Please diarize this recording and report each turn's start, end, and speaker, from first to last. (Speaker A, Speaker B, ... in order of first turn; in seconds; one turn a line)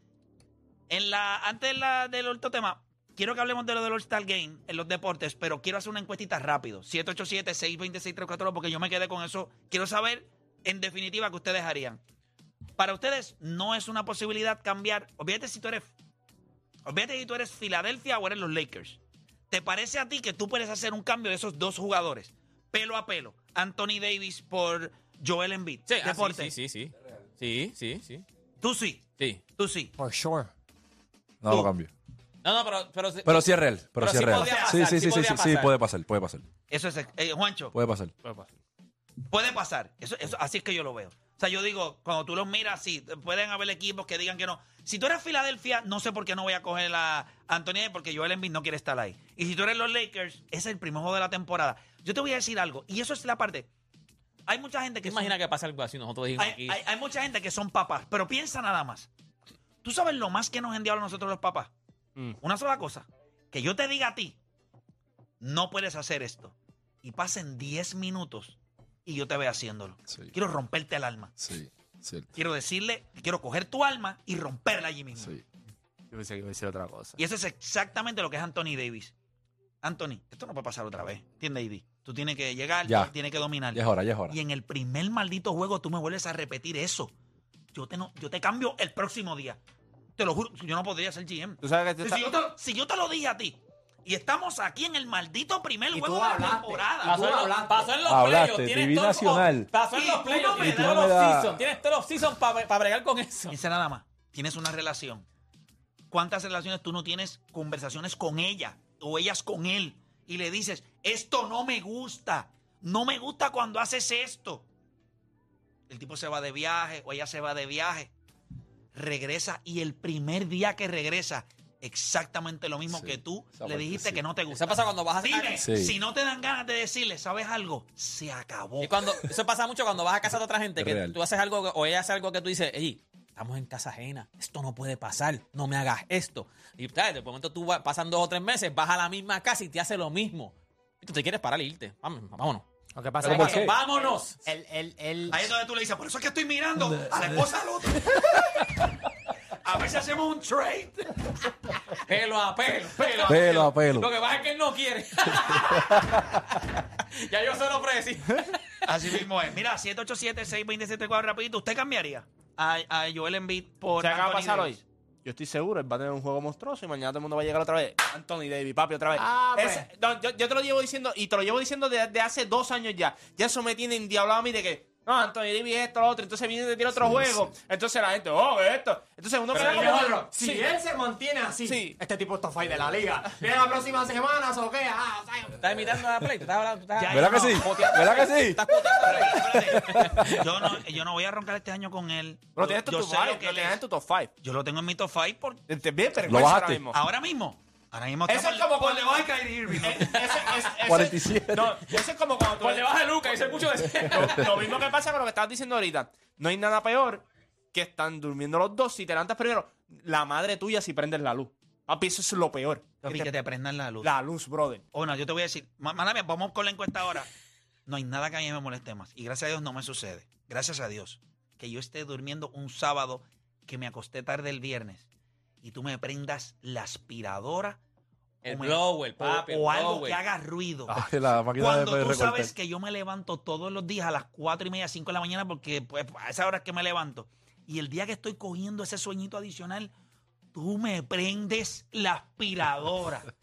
Speaker A: 0.9-12.0
Speaker A: 12.8-15.9
Speaker A: 16.8-19.0
Speaker A: 19.5-26.5
Speaker B: 25.9-28.2
Speaker A: 28.6-29.9
Speaker C: 30.0-30.5
Speaker D: 31.4-31.9
Speaker B: 32.4-35.7
Speaker D: 33.2-36.5
Speaker A: 34.0-34.8
Speaker A: 36.7-37.7
Speaker D: 37.7-38.1
Speaker E: 38.2-38.5
Speaker A: 39.3-53.7
Speaker A: 54.5-55.3
Speaker B: 55.0-56.8
Speaker A: 56.4-59.1
Speaker A: 59.8-61.7
Speaker A: 62.4-64.4
Speaker A: 65.4-71.3
Speaker D: 71.4-72.3
Speaker A: 72.3-75.3
Speaker D: 75.2-75.4
Speaker E: 76.1-77.2
Speaker A: 77.2-79.1
Speaker A: 79.8-87.1
Speaker D: 82.8-83.1
Speaker D: 83.7-84.4
Speaker A: 87.7-89.6
Speaker A: 90.2-97.2
Speaker E: 91.6-92.3
Speaker C: 95.9-97.9
Speaker B: 97.0-103.5
Speaker D: 98.0-99.7
Speaker A: 99.9-101.1
Speaker D: 100.6-101.6
Speaker A: 103.5-105.2
Speaker A: 106.1-114.7
Speaker A: 115.9-118.1
Speaker A: 118.9-128.9
Speaker D: 122.9-124.2
Speaker B: 124.5-125.7
Speaker D: 125.6-126.0
Speaker B: 128.8-142.6
Speaker D: 130.8-131.2
Speaker C: 142.9-145.5
Speaker B: 143.2-144.4
Speaker D: 143.2-143.8
Speaker A: 145.3-148.8
Speaker D: 147.0-147.2
Speaker D: 148.0-148.6
Speaker A: 149.6-151.1
Speaker B: 152.0-158.8
Speaker D: 153.2-154.1
Speaker D: 155.5-156.3
Speaker A: 158.8-164.8
Speaker E: 163.9-180.6
Speaker C: 169.2-169.9
Speaker D: 176.9-177.5
Speaker C: 179.5-185.6
Speaker B: 179.6-180.0
Speaker E: 181.6-182.0
Speaker B: 185.6-190.3
Speaker A: 186.9-187.9
Speaker D: 187.1-190.5
Speaker A: 189.1-193.8
Speaker E: 192.5-194.3
Speaker A: 194.4-195.6
Speaker E: 195.7-197.0
Speaker D: 196.3-196.8
Speaker A: 196.9-200.6
Speaker E: 198.3-203.6
Speaker B: 200.0-200.7
Speaker D: 200.8-201.9
Speaker B: 202.6-204.7
Speaker D: 204.1-204.5
Speaker E: 204.1-213.3
Speaker A: 213.0-214.1
Speaker E: 214.0-214.8
Speaker A: 214.9-217.3
Speaker A: 217.8-225.1
Speaker A: 225.6-227.8
Speaker B: 228.4-230.2
Speaker A: 228.4-239.9
Speaker D: 230.9-232.5
Speaker A: 240.5-243.3